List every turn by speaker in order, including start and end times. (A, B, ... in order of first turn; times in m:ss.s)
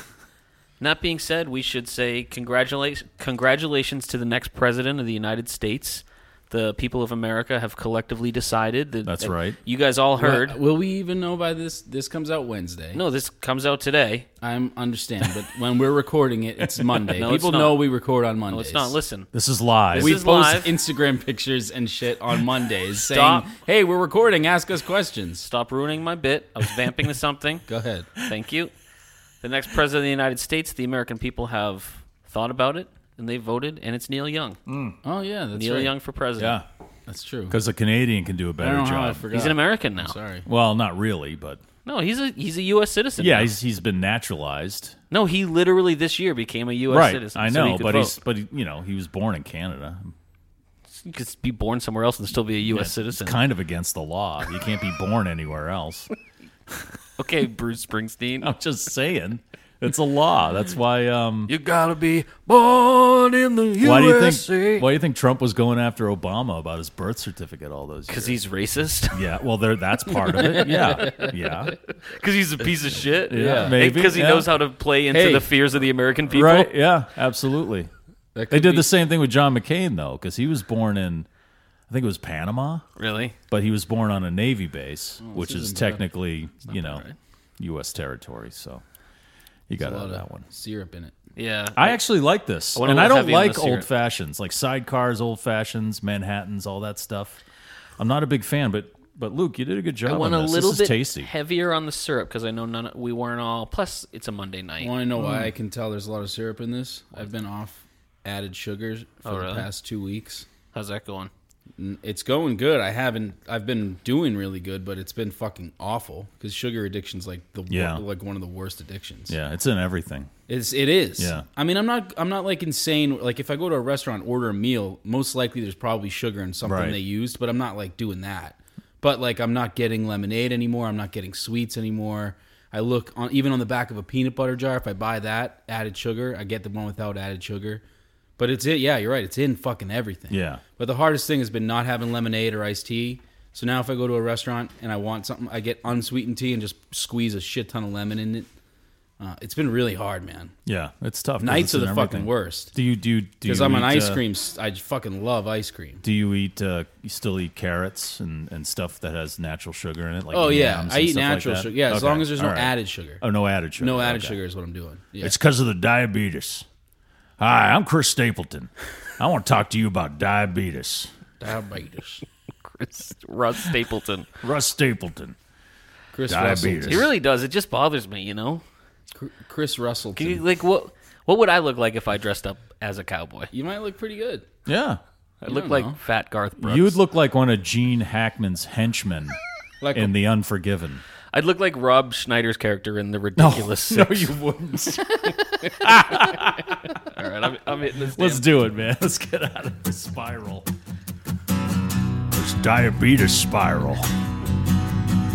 0:00.8-0:10.6 A
0:09.0-0:09.6 B
0:10.2-0:13.0 C
0:12.9-0:14.3 A
0:14.4-0:18.9 C
0:17.1-0:17.8 A
0:18.5-0:19.3 A
0:19.3-0:20.2 B
0:19.9-0:20.7 A
0:20.0-0:25.4 C
0:23.0-0:23.5 A
0:25.4-0:27.6 A
0:27.7-0:28.1 C
0:28.2-0:28.7 A
0:29.4-0:34.6 A
0:34.7-0:35.0 B
0:35.0-0:35.9 C
0:35.5-0:36.6 A
0:36.4-0:36.7 B
0:37.1-0:37.6 C
0:37.5-0:39.3 B
0:38.6-0:40.5 C
0:39.3-0:40.2 A
0:40.5-0:41.6 B
0:41.8-0:43.5 A
0:43.2-0:45.0 B
0:45.1-0:48.2 A
0:46.9-0:50.2 B
0:50.9-0:53.4 A
0:52.6-0:56.1 B
0:57.2-0:58.5 A
0:58.4-1:01.5 B
1:01.5-1:04.9 A
1:03.8-1:08.4 B
1:08.1-1:09.2 A
1:09.1-1:11.8 B
1:10.7-1:11.3 C
1:12.1-1:16.7 A
1:13.3-1:14.5 B
1:13.3-1:13.8 C
1:15.1-1:15.5 C
1:16.3-1:17.9 B
1:18.4-1:18.9 C
1:18.5-1:21.3 B
1:21.9-1:22.8 B
1:23.0-1:23.4 A
1:23.5-1:27.0 B
1:25.2-1:26.0 C
1:26.7-1:27.2 A
1:27.6-1:28.8 B
1:29.7-1:30.5 B
1:29.8-1:31.2 C
1:31.4-1:32.0 A
1:31.8-1:37.4 B
1:32.8-1:33.9 A
1:38.0-1:41.3 B
1:40.1-1:45.0 A
1:44.8-1:50.5 C
1:45.2-1:45.5 B
1:49.2-1:49.7 A
1:50.7-1:51.3 A
1:51.8-1:59.4 C
1:57.7-1:58.0 B
1:59.3-2:00.3 B
2:00.5-2:17.8 C
2:01.2-2:01.5 B
2:06.6-2:07.0 B
2:18.4-2:28.5 C
2:20.3-2:20.6 B
2:29.2-2:30.5 C
2:30.7-2:34.2 B
2:31.4-2:32.7 C
2:33.4-2:36.0 C
2:36.0-2:44.4 B
2:40.3-2:43.2 C
2:43.8-2:45.4 C
2:45.2-2:46.7 B
2:47.4-2:51.1 B
2:51.4-2:52.2 C
2:52.6-2:54.3 A
2:54.4-2:55.4 B
2:56.1-2:57.1 C
2:56.3-2:57.1 B
2:56.9-2:58.6 A
2:59.1-3:00.4 C
3:00.2-3:03.5 A
3:03.5-3:04.5 C
3:04.7-3:05.0 B
3:05.4-3:07.0 A
3:05.5-3:06.0 C
3:06.6-3:09.4 B
3:09.8-3:10.1 C
3:09.9-3:11.0 B
3:11.3-3:14.3 A
3:13.4-3:17.0 B
3:17.0-3:18.6 A
3:18.1-3:20.7 B
3:22.3-3:24.1 B